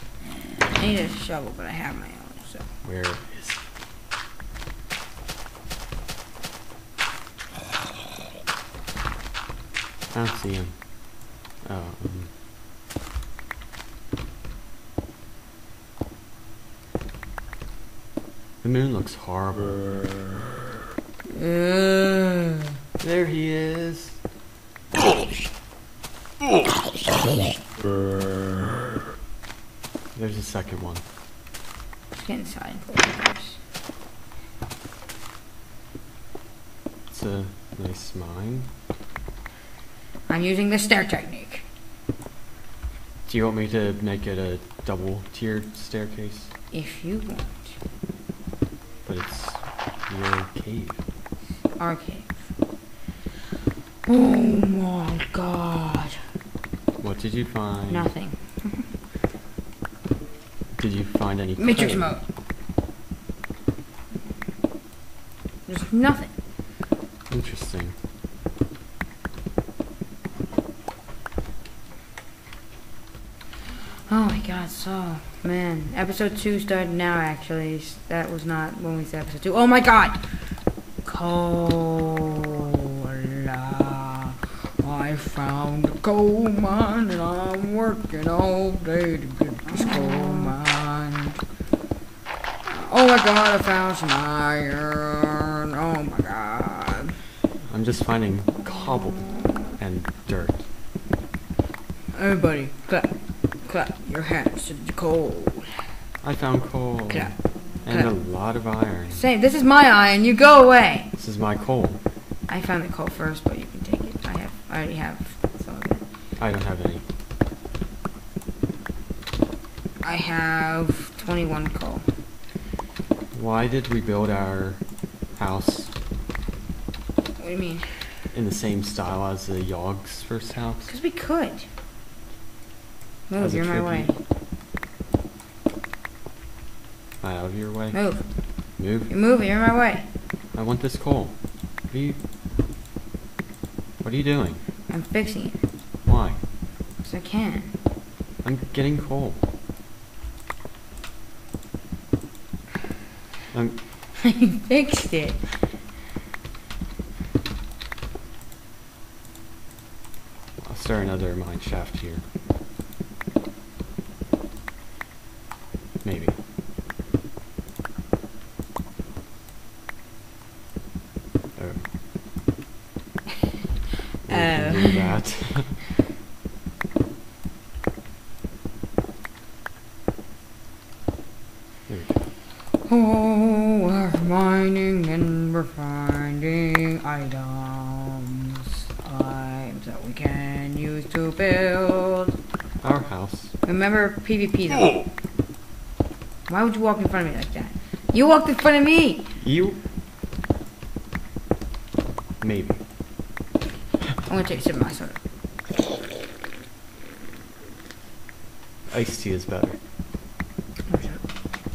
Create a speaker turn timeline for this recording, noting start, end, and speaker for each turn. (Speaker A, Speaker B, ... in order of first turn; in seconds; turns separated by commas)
Speaker A: 0.7-2.6, Speaker B: 2.8-3.6, Speaker B: 10.1-12.3, Speaker B: 18.6-19.9, Speaker A: 21.3-22.6, Speaker B: 23.0-24.2, Speaker B: 30.1-31.0, Speaker A: 32.1-33.6, Speaker B: 37.1-38.7, Speaker A: 40.3-41.6, Speaker B: 43.3-46.5, Speaker A: 46.7-47.8, Speaker B: 49.0-51.0, Speaker A: 51.8-52.3, Speaker A: 54.1-56.2, Speaker B: 57.0-58.1, Speaker A: 57.9-58.9, Speaker B: 60.8-62.1, Speaker A: 61.6-62.2, Speaker A: 65.7-66.3, Speaker B: 67.3-68.0, Speaker A: 74.1-80.2, Speaker A: 81.0-91.4, Speaker A: 92.7-97.2, Speaker B: 97.7-100.6, Speaker A: 99.2-99.6, Speaker A: 102.2-105.8, Speaker B: 106.2-107.3, Speaker A: 107.1-108.1, Speaker B: 107.8-109.2, Speaker A: 109.1-111.1, Speaker B: 111.2-112.0, Speaker A: 112.5-116.0, Speaker B: 116.4-117.0, Speaker A: 120.0-122.1, Speaker B: 123.3-124.8, Speaker B: 125.3-125.9, Speaker A: 127.4-128.0, Speaker B: 128.3-130.9, Speaker A: 130.9-131.7, Speaker A: 133.3-134.2, Speaker B: 133.4-134.1, Speaker B: 137.2-138.0, Speaker A: 137.9-138.3, Speaker B: 138.8-139.1, Speaker A: 139.1-140.1, Speaker B: 140.5-141.4, Speaker B: 141.9-142.2, Speaker B: 144.0-144.6, Speaker A: 144.9-145.6, Speaker B: 146.1-146.4, Speaker A: 147.0-147.7, Speaker B: 148.4-149.4, Speaker B: 153.5-153.8, Speaker A: 154.2-155.5, Speaker B: 160.6-162.2, Speaker B: 166.0-166.4, Speaker B: 171.6-171.8, Speaker A: 174.3-175.2, Speaker B: 174.3-175.8, Speaker B: 181.9-182.2, Speaker A: 182.9-192.3, Speaker B: 192.8-193.5, Speaker A: 193.6-195.0, Speaker A: 196.5-199.3, Speaker B: 199.4-199.8, Speaker B: 202.4-202.8, Speaker A: 204.3-205.2, Speaker B: 208.9-209.8, Speaker A: 210.9-211.2